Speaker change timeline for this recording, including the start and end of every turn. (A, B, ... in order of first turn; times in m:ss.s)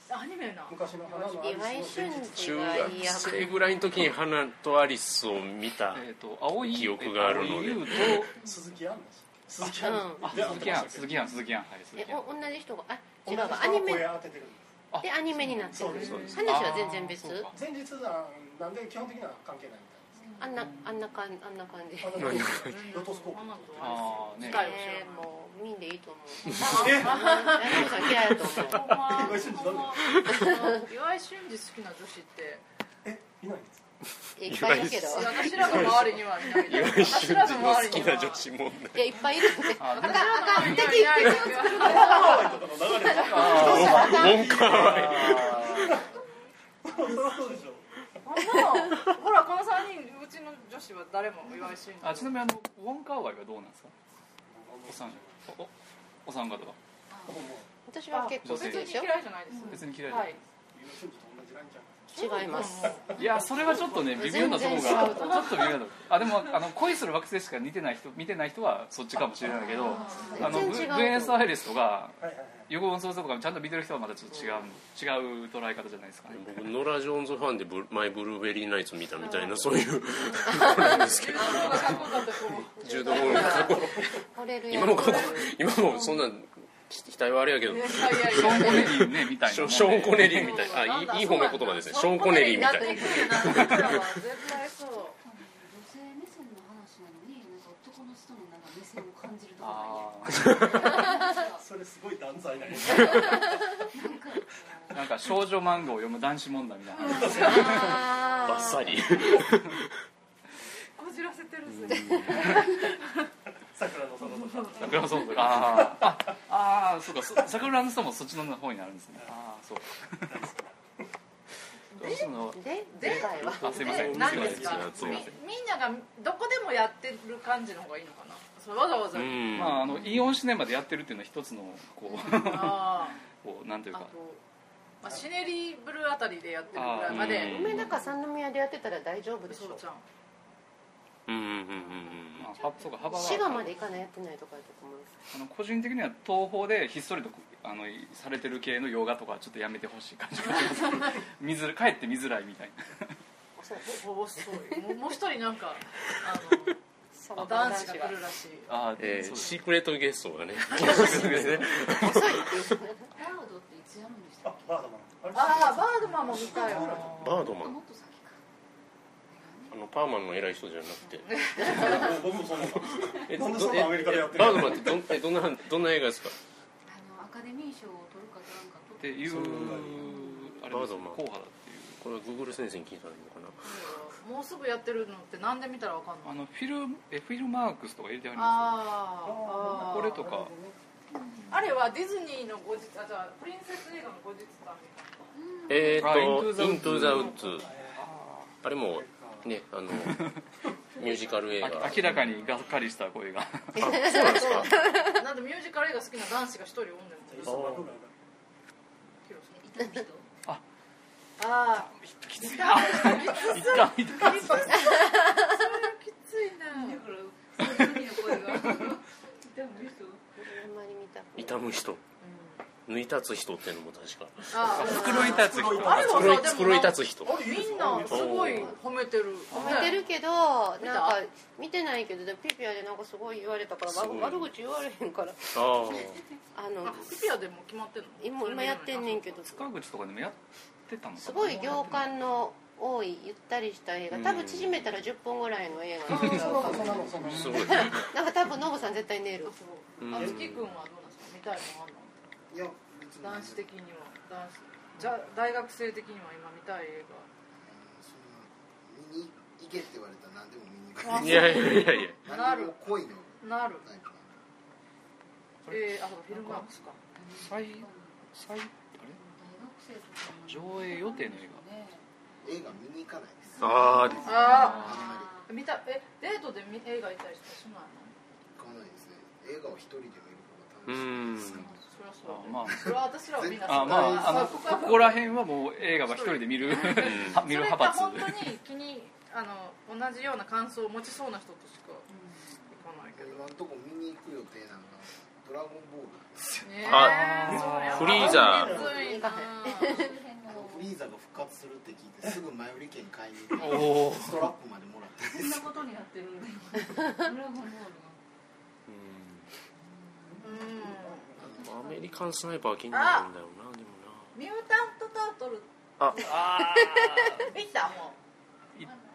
0:00.1-0:02.0 A
0:00.7-0:02.9 B
0:01.4-0:03.7 C
0:02.3-0:06.0 D
0:05.9-0:08.4 E
0:06.6-0:08.2 D
0:08.0-0:11.5 B
0:09.6-0:12.2 E
0:09.8-0:10.6 C
0:11.9-0:14.2 C
0:13.2-0:14.8 B
0:14.9-0:17.5 E
0:15.0-0:17.5 C
0:15.4-0:16.4 B
0:16.0-0:16.3 D
0:17.5-0:20.4 B
0:20.1-0:20.6 F
0:20.4-0:22.5 C
0:20.5-0:20.9 E
0:22.0-0:24.5 B
0:22.2-0:22.7 D
0:22.5-0:25.3 A
0:23.8-0:24.7 E
0:24.4-0:29.0 C
0:26.6-0:32.6 A
0:26.6-0:27.3 B
0:28.7-0:30.0 B
0:30.0-0:30.5 D
0:33.0-0:33.9 B
0:34.4-0:36.1 C
0:34.4-0:39.7 D
0:35.0-0:38.5 A
0:38.9-0:44.6 C
0:39.8-0:41.0 E
0:39.9-0:43.6 A
0:41.6-0:46.2 B
0:43.3-0:44.2 E
0:43.5-0:45.8 D
0:44.9-0:45.9 E
0:46.8-0:47.9 B
0:48.2-0:52.4 A
0:52.0-0:53.9 E
0:54.4-0:55.4 B
0:54.9-0:55.7 E
0:56.2-0:56.8 E
0:57.1-0:57.4 F
0:57.2-0:57.7 B
0:57.9-0:59.1 C
0:58.1-1:00.4 A
0:58.4-0:59.0 E
0:59.5-0:59.8 F
0:59.7-1:00.4 E
1:00.7-1:04.5 B
1:02.1-1:03.2 A
1:02.2-1:03.0 C
1:03.2-1:16.7 E
1:04.0-1:05.7 C
1:04.7-1:05.3 A
1:09.6-1:10.6 F
1:09.7-1:10.6 A
1:09.8-1:11.4 C
1:12.2-1:12.7 B
1:14.3-1:14.7 C
1:16.3-1:24.1 D
1:19.2-1:24.2 A
1:22.8-1:25.5 C
1:24.7-1:34.2 D
1:24.8-1:25.6 A
1:27.7-1:29.0 A
1:28.3-1:30.7 E
1:30.2-1:35.2 A
1:32.6-1:33.2 C
1:35.2-1:41.6 F
1:39.6-1:40.6 E
1:40.9-1:43.5 B
1:42.9-1:45.0 F
1:44.9-1:48.0 E
1:47.0-1:48.4 F
1:47.1-1:48.0 B
1:47.1-1:49.4 A
1:47.5-1:49.0 C
1:48.4-1:50.0 D
1:50.9-1:53.2 A
1:51.7-1:52.5 D
1:53.7-1:56.4 B
1:54.2-1:55.6 A
1:54.8-2:00.4 E
1:57.2-1:57.5 B
2:00.3-2:01.0 B
2:02.0-2:02.2 A
2:02.0-2:05.3 E
2:02.0-2:04.2 C
2:02.9-2:09.7 A
2:03.6-2:05.2 B
2:04.3-2:05.3 D
2:09.1-2:09.9 D
2:09.5-2:14.1 E
2:12.1-2:13.2 A
2:13.9-2:14.4 A
2:15.0-2:18.1 A
2:16.7-2:17.9 E
2:17.1-2:17.9 D
2:17.2-2:19.8 C
2:19.5-2:20.0 A
2:21.3-2:22.5 D
2:22.0-2:23.4 A
2:22.4-2:23.7 E
2:22.6-2:23.7 F
2:23.1-2:25.2 C
2:25.3-2:33.2 E
2:33.6-2:34.0 C
2:33.8-2:36.8 A
2:37.2-2:38.2 C
2:37.4-2:37.7 E
2:37.4-2:38.7 A
2:38.7-2:39.6 E
2:39.0-2:42.8 D
2:40.8-2:41.7 E
2:40.8-2:41.2 A
2:42.0-2:43.1 C
2:43.1-2:44.7 F
2:44.4-2:47.2 B
2:45.3-2:47.1 A
2:47.1-2:47.3 E
2:47.1-2:47.8 D
2:47.5-2:48.4 F
2:49.3-2:49.8 F
2:49.7-2:52.1 D
2:51.3-2:52.0 A
2:51.5-2:55.0 B
2:52.8-2:56.4 D
2:56.8-2:59.6 F
2:59.0-3:02.0 E
2:59.3-3:00.0 D
2:59.6-3:00.6 B
3:00.7-3:01.2 D
3:02.0-3:03.7 D
3:03.6-3:06.4 A
3:06.2-3:09.1 E
3:08.4-3:10.2 A
3:09.2-3:10.8 B
3:09.6-3:10.5 E
3:11.1-3:11.7 F
3:11.5-3:15.2 A
3:15.3-3:16.2 F
3:15.7-3:17.7 D
3:16.0-3:17.3 E
3:17.2-3:18.2 B
3:18.0-3:18.5 E
3:18.6-3:20.2 D
3:18.8-3:19.5 B
3:19.9-3:20.4 E
3:20.9-3:22.6 F
3:21.0-3:22.0 D
3:21.6-3:24.0 E
3:23.8-3:24.7 D
3:23.8-3:25.2 C
3:24.2-3:27.7 A
3:27.3-3:28.1 B
3:27.4-3:27.9 D
3:29.2-3:29.5 A
3:29.5-3:30.3 F
3:31.4-3:37.0 A
3:32.0-3:34.8 E
3:32.6-3:33.6 F
3:34.4-3:34.7 B
3:34.9-3:35.4 C
3:36.7-3:40.2 F
3:37.6-3:38.0 E
3:40.4-3:41.6 C
3:41.4-3:42.0 D
3:42.2-3:42.6 A
3:42.8-3:45.1 D
3:44.5-3:50.0 A
3:44.8-3:46.1 E
3:44.9-3:45.5 C
3:45.0-3:46.5 B
3:45.7-3:47.4 D
3:47.2-3:48.8 B
3:48.0-3:48.7 D
3:49.5-3:50.0 E
3:49.5-3:57.3 C
3:50.8-3:51.2 A
3:53.9-3:54.5 D
3:55.5-3:56.2 D
3:56.8-3:59.2 A
3:58.2-3:59.7 C
3:59.4-4:02.1 E
4:01.2-4:09.5 C
4:04.1-4:05.0 D
4:06.0-4:07.9 B
4:06.2-4:06.5 E
4:07.3-4:08.1 D
4:07.3-4:07.9 E
4:09.4-4:12.2 A
4:10.0-4:10.8 D
4:12.5-4:13.6 G
4:13.2-4:17.3 A
4:17.6-4:24.4 G
4:21.0-4:22.8 A
4:21.1-4:22.2 D
4:23.4-4:23.8 A
4:25.6-4:26.8 E
4:25.7-4:27.0 A
4:27.2-4:28.4 F
4:27.4-4:29.2 E
4:29.1-4:32.6 F
4:30.3-4:31.6 E
4:32.4-4:35.3 G
4:33.5-4:35.5 F
4:33.6-4:34.6 D
4:34.2-4:38.1 A
4:34.6-4:35.0 E
4:38.6-4:41.8 G
4:40.9-4:41.6 D
4:41.5-4:41.8 F
4:41.9-4:52.0 A
4:42.2-4:42.9 E
4:43.3-4:44.5 G
4:43.6-4:48.6 E
4:46.9-4:47.4 D
4:52.1-4:52.6 F
4:52.7-4:53.4 A
4:53.1-4:56.7 G
4:56.6-5:00.1 A
4:56.8-4:57.3 D
4:56.9-4:58.0 E
4:57.5-4:59.2 B
4:57.9-4:58.8 D
4:58.8-5:00.1 C
4:59.5-5:01.0 F
5:00.5-5:05.7 G
5:03.6-5:04.5 E
5:04.2-5:04.4 B
5:05.3-5:08.2 F
5:08.9-5:09.5 D
5:09.8-5:10.7 F
5:10.4-5:11.5 B
5:10.4-5:11.3 A
5:11.4-5:12.1 F
5:11.6-5:14.3 D
5:12.9-5:13.3 A
5:14.3-5:18.2 A
5:16.0-5:16.3 D